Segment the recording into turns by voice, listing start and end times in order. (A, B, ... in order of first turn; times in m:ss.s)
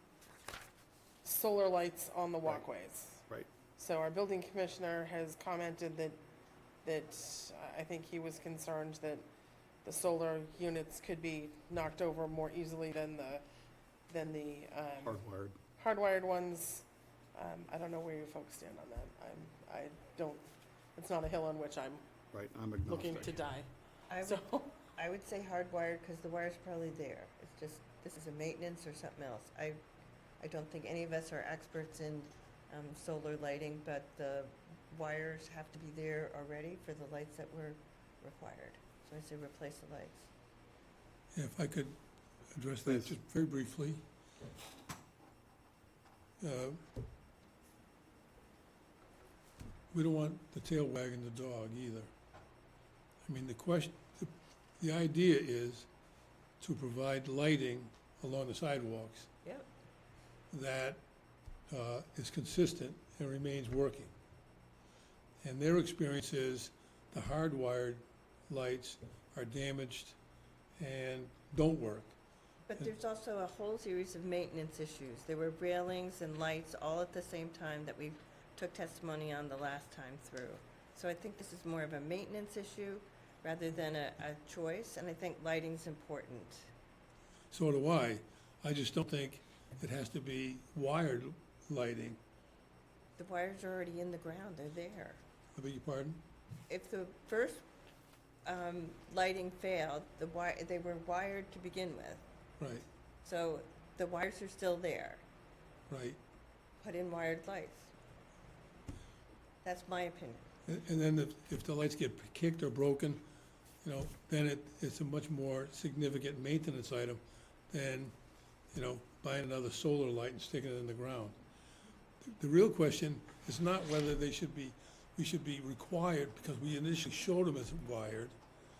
0:01.2-0:03.2 A
0:03.8-0:06.2 A
0:06.8-0:09.2 A
0:09.8-0:13.4 A
0:14.1-0:15.2 A
0:15.0-0:15.6 B
0:15.8-0:22.0 A
0:22.3-0:23.4 B
0:22.9-0:23.7 A
0:24.1-0:29.8 C
0:24.2-0:24.7 A
0:30.4-0:40.3 C
0:41.3-0:42.0 D
0:42.5-0:44.0 D
0:42.8-0:43.2 B
0:46.4-0:46.8 D
0:49.9-0:52.1 D
0:53.2-0:55.9 D
0:56.6-0:59.3 D
1:00.5-1:01.0 D
1:01.7-1:04.1 D
1:05.4-1:10.2 D
1:10.8-1:12.2 D
1:12.7-1:26.7 C
1:27.5-1:32.2 D
1:33.2-1:35.2 C
1:35.6-1:36.2 D
1:36.7-1:37.6 C
1:38.4-1:42.2 C
1:42.6-1:42.8 D
1:43.2-1:45.2 C
1:45.9-1:46.2 D
1:46.8-1:47.9 C
1:49.6-1:50.5 C
1:50.6-1:53.2 D
1:53.8-1:58.1 D
1:58.7-2:01.4 D
2:02.2-2:08.3 D